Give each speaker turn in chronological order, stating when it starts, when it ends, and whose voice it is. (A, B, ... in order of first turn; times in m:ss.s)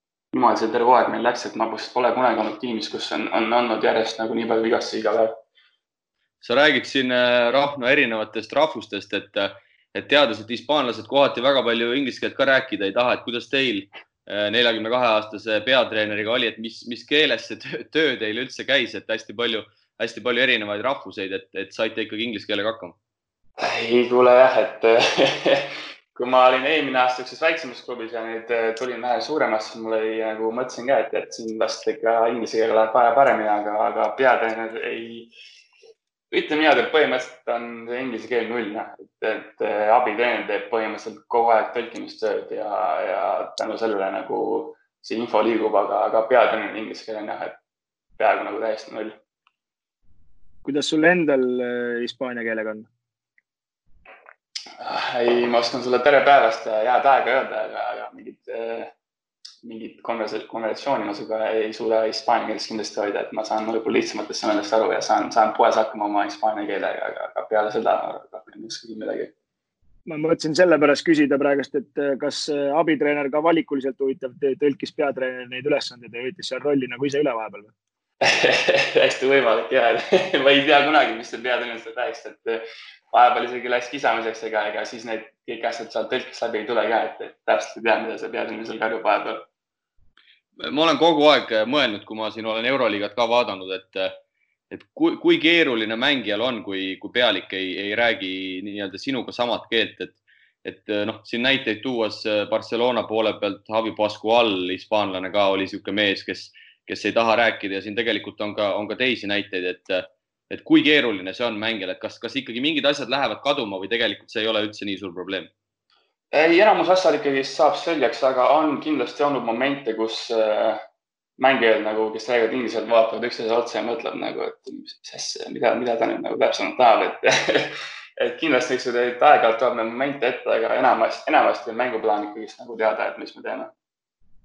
0:00.3-0:05.4 A
0:06.4-0:22.9 B
0:23.6-0:35.3 A
0:36.3-0:47.6 A
0:48.2-0:49.2 A
0:50.6-0:52.9 C
0:54.8-0:58.9 A
0:59.6-1:09.3 A
1:10.1-1:17.7 C
1:18.2-1:29.5 A
1:30.6-1:34.2 B
1:34.7-1:55.5 B
1:56.3-2:00.8 A
2:01.4-2:13.7 A